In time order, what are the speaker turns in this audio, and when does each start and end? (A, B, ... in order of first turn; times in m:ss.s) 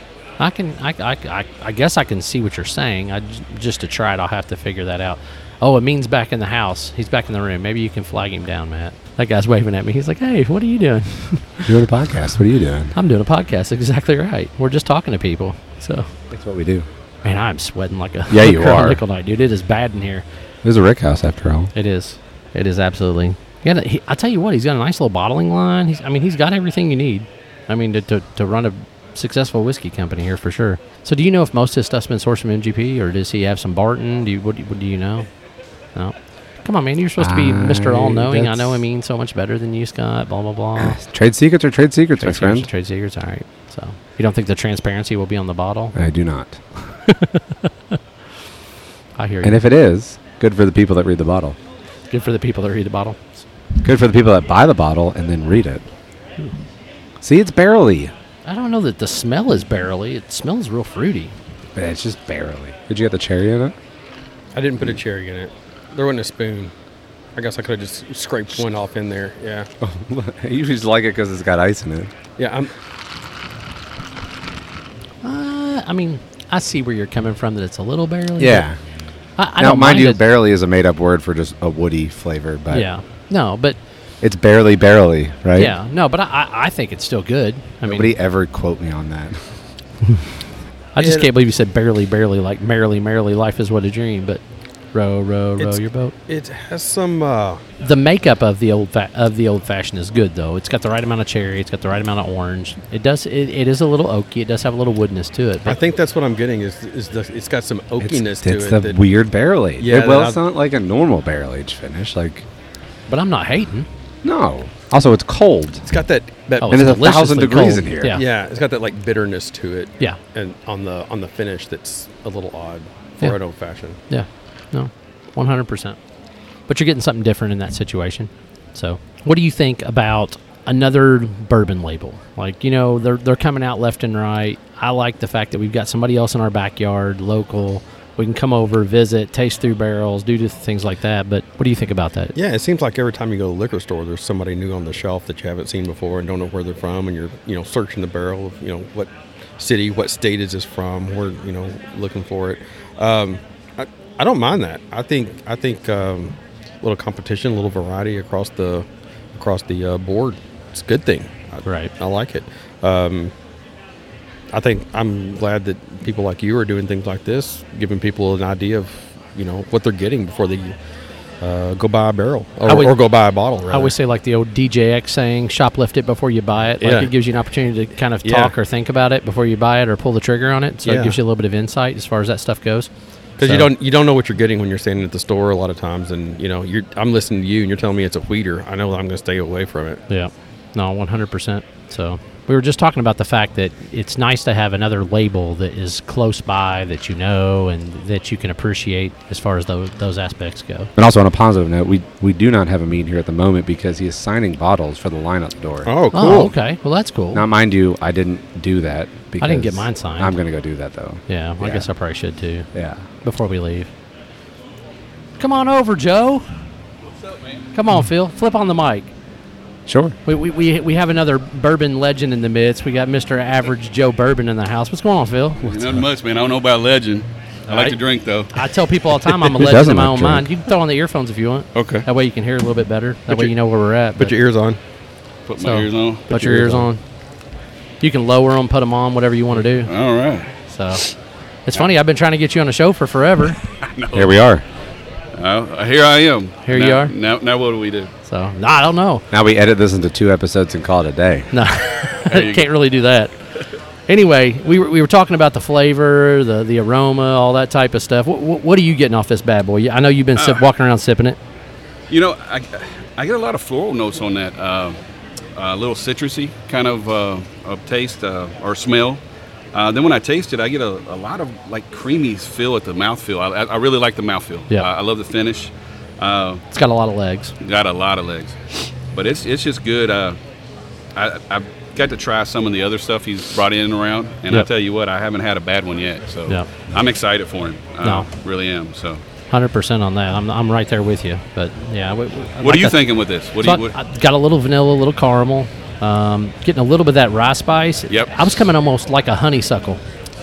0:00.4-0:11.8 A
0:11.7-0:12.9 B
0:13.0-0:16.1 A
0:16.3-0:16.9 B
0:17.2-0:20.2 A
0:18.3-0:19.0 B
0:20.6-0:21.7 B
0:21.7-0:35.3 A
0:36.0-0:41.0 A
0:37.2-0:38.8 B
0:40.8-0:42.7 B
0:42.2-0:46.0 A
0:46.0-0:46.6 B
0:47.1-0:47.4 A
0:49.2-0:49.6 A
0:49.4-0:51.6 B
0:52.1-0:53.3 A
0:53.8-0:55.8 B
0:57.2-0:58.1 B
0:58.4-1:01.3 A
1:01.8-1:03.8 B
1:04.5-1:06.7 C
1:07.4-1:09.7 C
1:09.8-1:12.1 B
1:12.4-1:12.7 C
1:15.2-1:18.6 A
1:18.4-1:18.8 B
1:19.4-1:20.2 A
1:19.6-1:22.9 B
1:22.7-1:23.8 A
1:24.2-1:25.8 B
1:25.6-1:28.1 A
1:27.8-1:29.4 B
1:31.0-1:34.4 A
1:31.0-1:31.3 C
1:34.9-1:36.1 A
1:35.6-1:37.6 C
1:37.8-1:45.8 A
1:45.6-1:49.0 C
1:48.0-1:52.5 B
1:49.8-1:50.4 C
1:53.1-1:53.9 A
1:54.2-1:55.8 B
1:55.9-1:56.9 C
1:56.6-1:58.2 A
1:56.7-1:58.2 B
1:58.1-2:04.0 C
2:04.1-2:06.0 A
2:06.7-2:22.4 A
2:22.4-2:43.3 C
2:41.6-2:41.9 A
2:44.5-2:50.8 C
2:51.4-2:53.9 C
2:52.6-2:53.0 A
2:53.7-3:02.9 A
2:56.8-2:57.1 C
2:58.2-2:58.5 C
3:00.8-3:01.2 C
3:03.4-3:10.0 C
3:03.4-3:03.7 A
3:10.1-3:20.9 A
3:21.0-3:26.0 B
3:25.8-3:26.5 C
3:26.1-3:27.4 A
3:27.3-3:31.9 B
3:29.4-3:30.4 A
3:31.3-3:32.7 A
3:32.7-3:33.0 B
3:33.2-3:33.9 A
3:35.4-3:36.5 A
3:37.7-3:39.1 A
3:39.9-3:40.2 B
3:40.3-3:46.0 A
3:45.6-3:48.7 D
3:47.7-3:48.0 A
3:48.5-3:54.4 A
3:49.5-3:50.5 B
3:51.8-3:52.0 C
3:54.2-3:54.8 C
3:55.5-3:56.3 D
3:55.6-3:57.0 A
3:56.3-3:56.9 C
3:58.0-3:59.9 A
3:59.8-4:00.5 D
4:00.7-4:01.0 A
4:01.7-4:03.6 A
4:03.8-4:04.3 D
4:04.1-4:04.6 B
4:05.4-4:08.1 D
4:06.7-4:07.1 A
4:08.3-4:09.2 A
4:09.3-4:11.5 B
4:11.5-4:13.3 A
4:12.3-4:12.7 D
4:14.1-4:21.4 A
4:20.4-4:20.6 D
4:22.1-4:25.0 D
4:25.6-4:29.2 D
4:29.7-4:36.6 D
4:36.7-4:37.6 A
4:37.6-4:40.4 D
4:41.2-4:49.2 D
4:48.0-4:48.3 A
4:49.5-4:53.0 A
4:52.6-4:54.0 D
4:53.6-5:00.0 A